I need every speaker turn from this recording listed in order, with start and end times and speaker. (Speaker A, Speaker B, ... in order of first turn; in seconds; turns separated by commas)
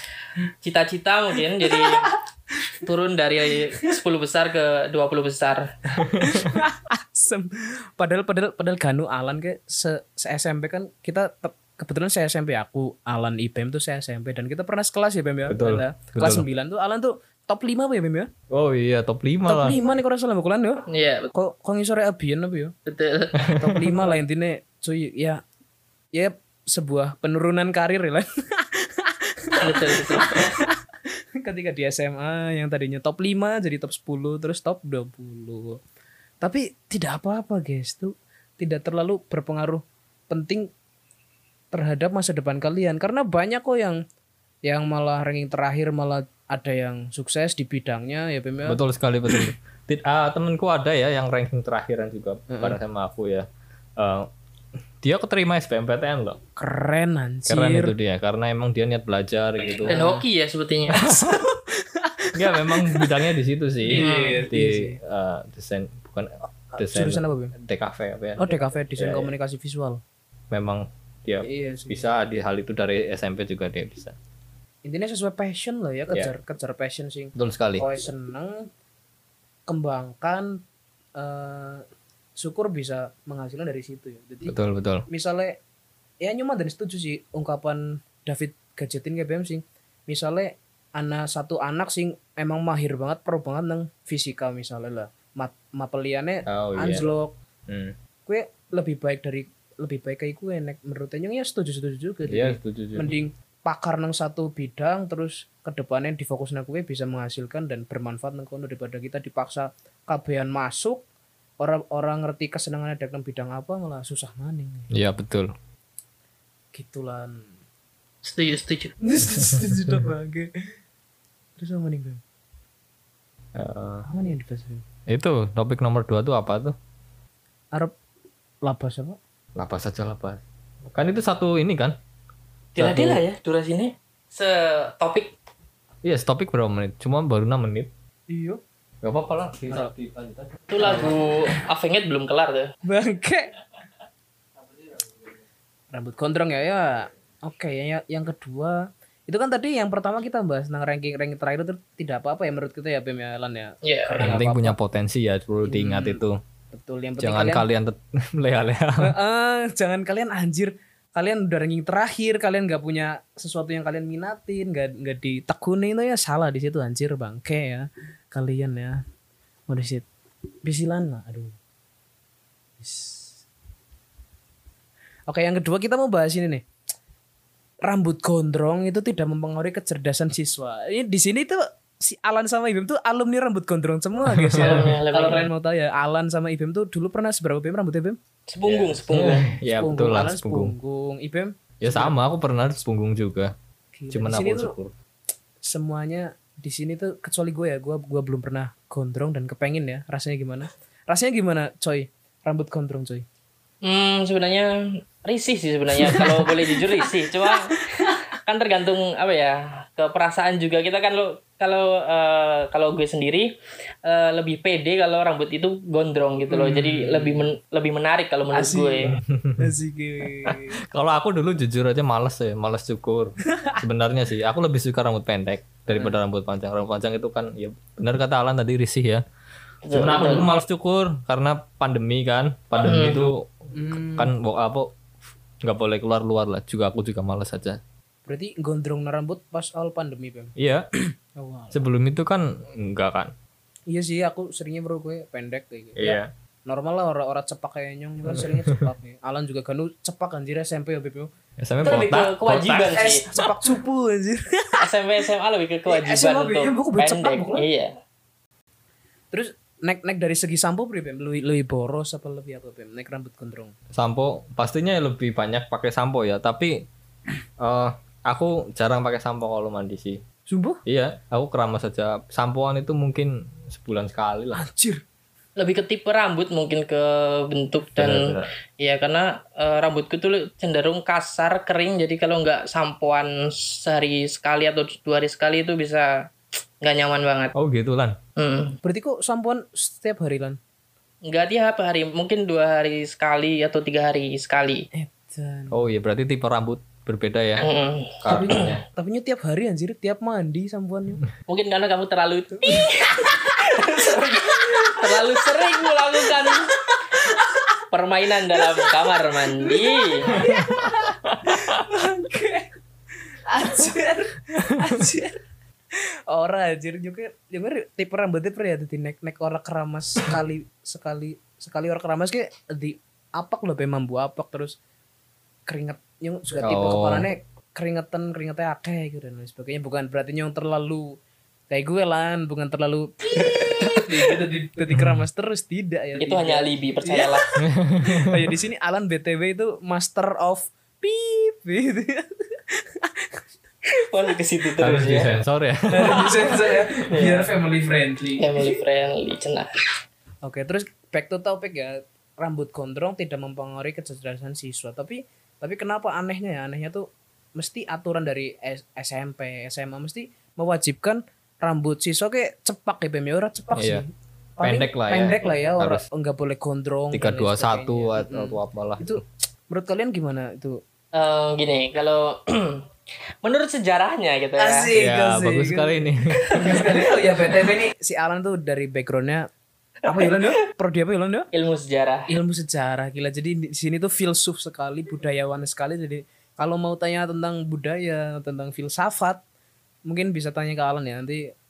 Speaker A: 0.6-2.1, Speaker B: 1.6-2.8, Speaker A: 2.8-5.7, Speaker B: 3.5-3.9, Speaker B: 5.9-18.3, Speaker C: 6.0-6.5, Speaker C: 15.5-16.4, Speaker C: 18.5-19.8, Speaker B: 19.4-22.7, Speaker A: 20.9-21.3, Speaker A: 22.9-23.5, Speaker C: 23.4-23.8, Speaker B: 23.4-25.4, Speaker B: 26.1-30.8, Speaker A: 29.6-30.5, Speaker B: 31.4-35.8, Speaker B: 36.4-40.7, Speaker B: 41.7-44.0, Speaker B: 44.6-48.8, Speaker C: 48.6-54.3, Speaker B: 52.5-52.8, Speaker C: 55.0-56.4, Speaker B: 56.6-57.9, Speaker C: 57.5-60.0, Speaker B: 59.8-60.2, Speaker A: 59.8-61.1, Speaker C: 60.9-61.4, Speaker B: 61.0-63.1, Speaker C: 62.3-69.3, Speaker B: 63.9-65.0, Speaker A: 63.9-64.5, Speaker B: 66.7-67.5, Speaker B: 68.4-70.0, Speaker C: 70.5-74.1, Speaker B: 71.4-72.1, Speaker B: 74.8-78.7, Speaker C: 77.3-77.8, Speaker B: 79.7-80.6, Speaker B: 81.2-81.8, Speaker B: 82.4-84.6, Speaker C: 84.5-85.0, Speaker B: 85.1-85.6, Speaker B: 86.2-97.4, Speaker C: 96.5-97.0, Speaker C: 97.7-97.9, Speaker B: 98.2-111.0, Speaker C: 102.3-103.1, Speaker B: 111.6-114.9, Speaker C: 114.9-115.5, Speaker B: 116.7-117.5, Speaker A: 118.2-118.9, Speaker B: 119.0-120.5, Speaker C: 119.2-120.0, Speaker B: 121.6-122.2, Speaker C: 123.5-124.0, Speaker B: 124.0-124.8, Speaker C: 125.1-126.7, Speaker B: 128.6-129.2, Speaker C: 129.6-132.0, Speaker A: 132.8-135.3, Speaker C: 132.8-133.2, Speaker C: 136.0-137.9, Speaker B: 138.3-138.6, Speaker C: 139.0-141.1, Speaker A: 140.7-142.7, Speaker B: 142.8-143.5, Speaker B: 145.9-154.8, Speaker A: 153.8-154.3, Speaker C: 154.1-156.4, Speaker B: 155.6-157.6, Speaker C: 157.2-159.1, Speaker B: 159.0-169.0, Speaker B: 169.7-170.1, Speaker B: 170.6-171.5, Speaker B: 172.8-173.4, Speaker B: 175.3-176.7, Speaker B: 177.8-188.2, Speaker C: 184.2-184.9, Speaker A: 184.5-185.5, Speaker A: 188.5-189.5, Speaker C: 188.6-190.7, Speaker B: 189.7-192.1, Speaker C: 191.8-193.5, Speaker B: 193.9-194.7, Speaker C: 194.1-194.9, Speaker B: 195.6-203.2, Speaker A: 203.8-213.5, Speaker B: 206.0-208.2, Speaker A: 214.0-219.1, Speaker B: 216.5-217.5, Speaker B: 218.5-220.8, Speaker C: 219.1-219.7, Speaker C: 220.4-229.2, Speaker B: 223.5-223.8, Speaker B: 225.9-226.2, Speaker A: 229.8-230.5, Speaker C: 229.9-234.9, Speaker A: 232.8-233.2, Speaker B: 233.7-234.3, Speaker C: 235.6-237.8, Speaker B: 238.2-240.5, Speaker C: 240.6-240.9, Speaker B: 241.3-241.8, Speaker C: 241.7-243.3, Speaker B: 243.9-251.3, Speaker C: 245.9-246.3, Speaker C: 248.2-248.9, Speaker C: 251.6-253.5, Speaker A: 251.8-253.2, Speaker B: 252.9-254.8, Speaker A: 254.8-257.9, Speaker B: 255.9-257.6, Speaker B: 259.3-263.7, Speaker C: 263.9-266.9, Speaker C: 267.6-270.2, Speaker B: 270.5-270.8, Speaker C: 270.8-274.6, Speaker B: 274.5-275.0, Speaker A: 275.6-287.5, Speaker C: 278.0-278.5, Speaker C: 287.5-288.2, Speaker A: 288.4-288.8, Speaker B: 288.8-290.6, Speaker A: 291.2-294.9, Speaker B: 294.9-295.8, Speaker C: 295.7-297.7, Speaker A: 297.6-298.7, Speaker C: 298.2-298.8, Speaker B: 298.2-301.2, Speaker A: 301.5-307.3, Speaker B: 302.6-303.7, Speaker B: 304.5-307.8, Speaker A: 307.9-310.3, Speaker B: 308.5-312.7, Speaker C: 310.3-310.7, Speaker C: 311.3-311.8, Speaker B: 313.4-315.4, Speaker C: 314.8-315.1, Speaker B: 315.9-324.8, Speaker B: 325.7-331.2, Speaker C: 326.6-327.2, Speaker B: 331.7-343.4, Speaker A: 333.4-334.4, Speaker C: 334.9-335.2, Speaker A: 336.2-337.4, Speaker C: 337.6-338.5, Speaker A: 344.0-345.3, Speaker C: 344.8-346.6, Speaker B: 345.9-348.8, Speaker A: 347.1-347.5, Speaker A: 348.4-349.7, Speaker B: 350.4-370.8, Speaker C: 363.7-364.0, Speaker C: 364.6-366.0, Speaker C: 367.1-369.2, Speaker A: 371.1-372.9, Speaker A: 373.4-374.9, Speaker B: 374.6-379.5, Speaker C: 374.9-376.6, Speaker A: 376.6-377.3, Speaker B: 380.0-381.5, Speaker A: 380.1-380.5, Speaker A: 381.5-382.3, Speaker B: 382.3-389.4, Speaker B: 390.1-391.5